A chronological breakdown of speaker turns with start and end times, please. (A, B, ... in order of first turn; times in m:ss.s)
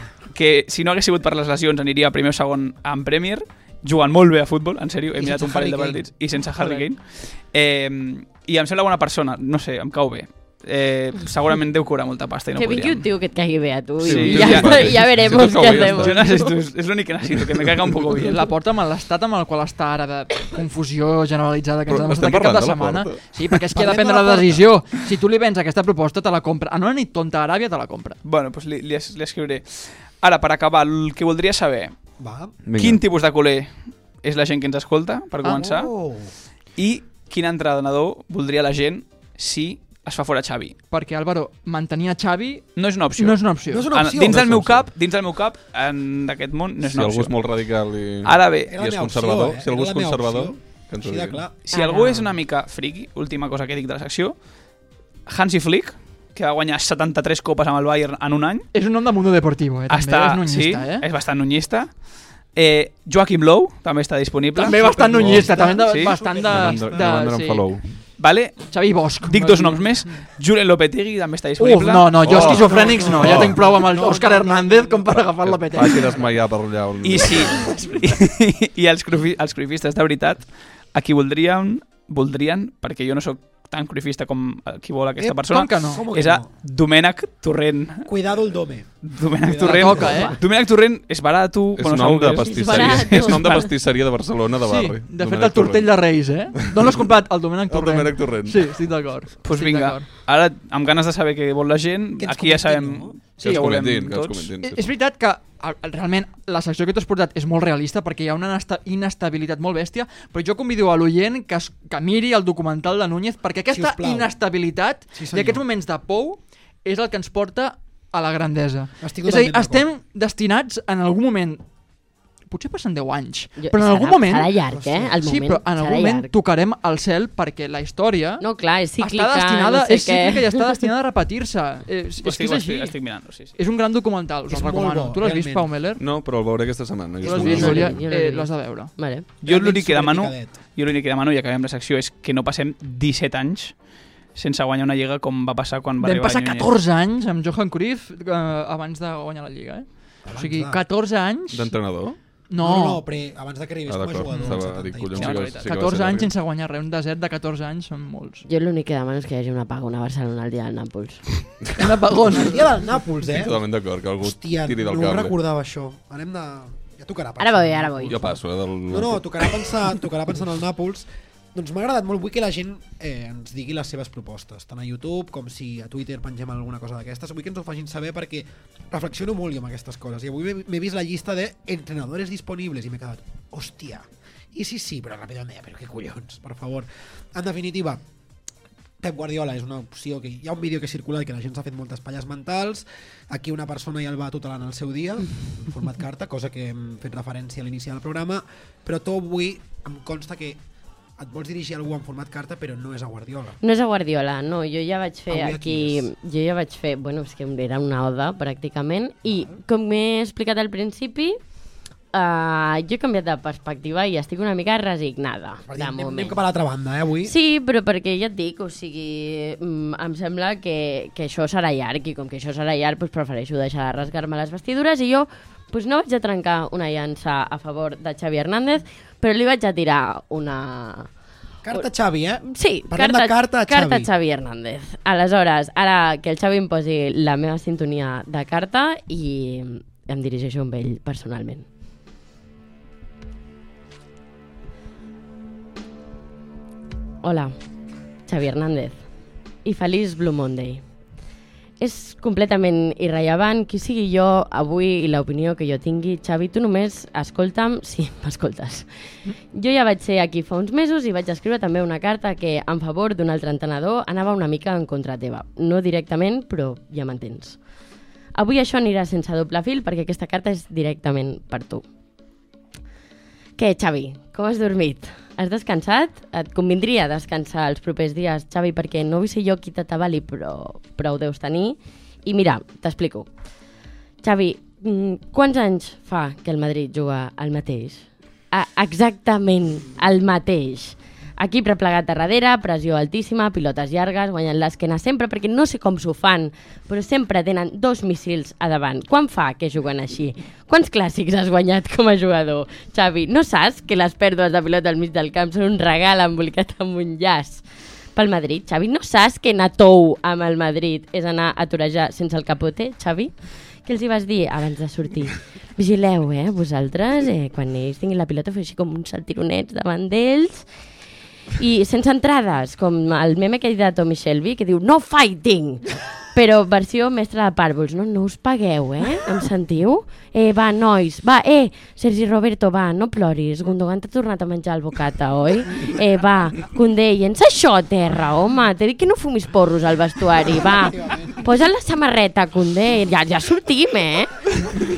0:00.3-0:13.1 A
0:05.2-0:06.0 B
0:12.6-0:16.5 C
0:14.0-0:18.4 A
0:14.0-0:16.2 D
0:17.3-0:17.8 D
0:18.2-0:28.2 E
0:21.9-0:23.6 D
0:23.7-0:24.7 B
0:28.2-0:31.9 A
0:32.2-0:32.5 B
0:32.6-0:33.0 D
0:32.8-0:33.7 A
0:34.2-0:35.9 A
0:35.4-0:36.3 B
0:36.8-0:40.8 A
0:40.9-0:43.9 E
0:42.8-0:47.3 A
0:43.7-0:44.7 B
0:44.3-0:44.8 D
0:46.8-0:51.4 D
0:48.2-0:48.7 A
0:48.7-0:51.6 B
0:51.7-0:54.3 A
0:51.7-0:52.3 C
0:55.2-0:58.7 A
0:58.7-1:01.0 E
0:59.9-1:02.0 A
1:02.5-1:04.9 A
1:04.6-1:07.6 E
1:04.8-1:07.1 B
1:04.9-1:05.7 D
1:05.8-1:06.2 A
1:06.4-1:07.8 D
1:08.2-1:08.7 A
1:08.7-1:10.0 E
1:09.2-1:12.4 A
1:11.6-1:16.1 E
1:12.2-1:13.6 D
1:12.4-1:15.2 B
1:15.4-1:17.7 D
1:17.0-1:28.1 A
1:25.2-1:26.5 B
1:25.5-1:26.0 E
1:28.0-1:28.9 B
1:29.0-1:33.7 A
1:29.4-1:30.4 B
1:29.6-1:30.4 E
1:31.8-1:36.1 D
1:32.5-1:33.7 C
1:34.6-1:40.1 E
1:36.6-1:37.0 D
1:37.7-1:38.7 D
1:39.4-1:44.5 A
1:42.2-1:43.1 B
1:43.4-1:44.9 D
1:44.6-2:01.6 E
1:53.7-1:54.3 B
1:55.1-1:55.6 B
1:59.0-1:59.9 B
2:02.5-2:04.5 E
2:03.6-2:06.3 C
2:04.7-2:05.2 B
2:05.2-2:08.4 E
2:08.4-2:10.8 C
2:09.0-2:12.9 E
2:12.2-2:13.5 A
2:13.6-2:16.0 E
2:14.5-2:15.7 B
2:16.0-2:18.0 D
2:17.2-2:18.9 E
2:17.2-2:19.2 C
2:19.4-2:20.5 B
2:19.4-2:23.7 A
2:24.3-2:26.7 A
2:26.0-2:31.7 E
2:30.3-2:30.8 B
2:31.5-2:32.2 D
2:32.5-2:33.0 E
2:32.6-2:35.5 B
2:33.9-2:36.3 D
2:34.3-2:34.6 E
2:35.2-2:35.6 A
2:35.3-2:38.4 E
2:38.5-2:41.2 C
2:41.8-2:42.7 E
2:42.3-2:43.6 B
2:43.3-2:45.3 D
2:44.2-2:48.3 B
2:47.4-2:48.2 C
2:48.1-2:49.6 D
2:48.9-3:08.0 B
3:09.0-3:20.6 B
3:21.2-3:23.6 B
3:23.6-3:31.4 C
3:25.3-3:26.1 B
3:32.1-3:36.4 C
3:35.7-3:37.3 B
3:37.2-3:51.1 C
3:51.6-3:54.1 B
3:52.4-4:01.6 C
4:07.2-4:07.5 C
4:08.3-4:09.0 C
4:09.6-4:10.8 C
4:11.8-4:18.9 C
4:19.5-4:27.6 C
4:28.3-4:31.8 C
4:33.6-4:43.3 C
4:44.2-5:07.6 C
5:08.1-5:13.3 C
5:13.8-5:20.6 C
5:21.6-5:44.5 C
5:40.5-5:41.4 B